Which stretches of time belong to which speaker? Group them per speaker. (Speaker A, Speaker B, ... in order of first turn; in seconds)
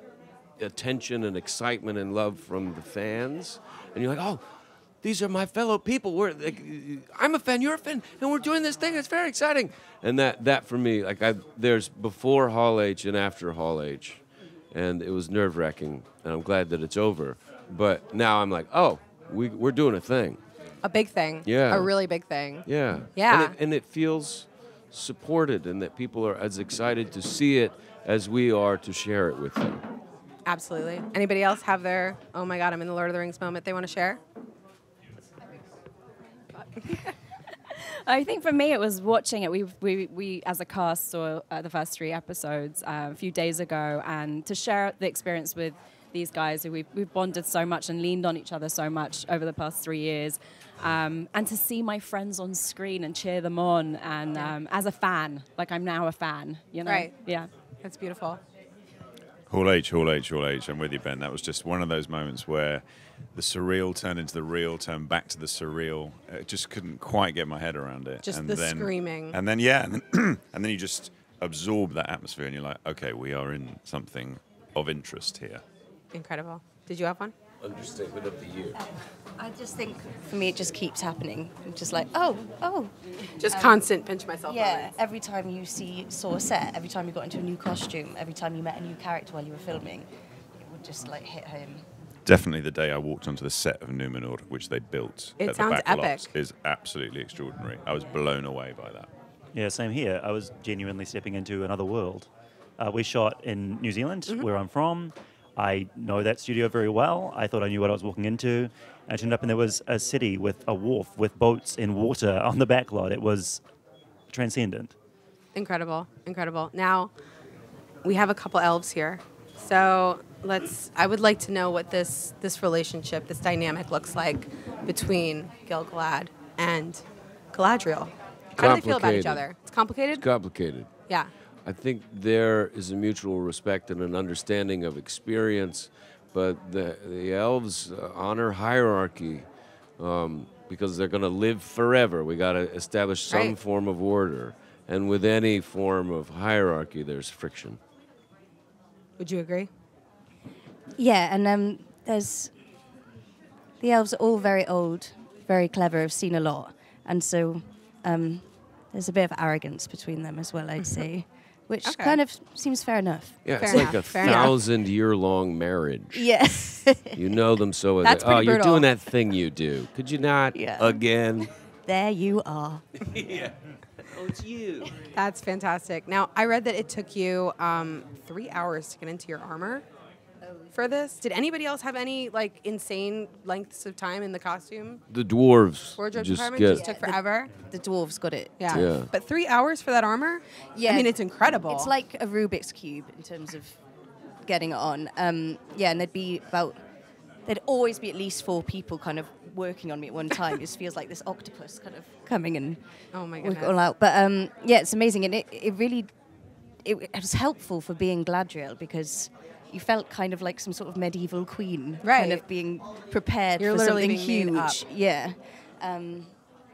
Speaker A: 0.6-4.4, 5.0-20.4, 21.4-21.9, 22.7-29.8, 77.6-78.8, 128.6-129.4, 130.2-130.9, 131.7-139.5, 140.0-147.8, 163.4-166.3, 167.2-171.5, 173.0-175.0, 185.1-186.9, 188.7-189.1
Speaker B: 20.8-23.6, 30.4-34.2, 56.9-57.1, 57.8-58.4, 68.2-69.4, 76.1-77.3, 83.3-85.0, 95.4-96.3, 115.5-117.1, 118.0-130.3, 143.3-143.6, 149.2-149.7, 161.8-162.2, 163.6-164.6, 168.0-168.9, 175.1-179.8, 180.7-185.0, 186.0-187.5, 188.6-191.9, 203.1-203.8, 212.0-212.4, 213.6-214.8
Speaker C: 37.7-57.5
Speaker D: 59.5-62.8, 63.3-75.6, 92.3-99.1
Speaker E: 79.4-83.8, 84.5-90.1, 90.6-91.8, 151.0-152.6, 153.8-164.3, 166.1-167.2, 170.5-172.8, 186.7-188.9, 190.7-193.8, 194.4-196.8, 197.4-216.4
Speaker F: 99.5-113.6, 114.3-115.0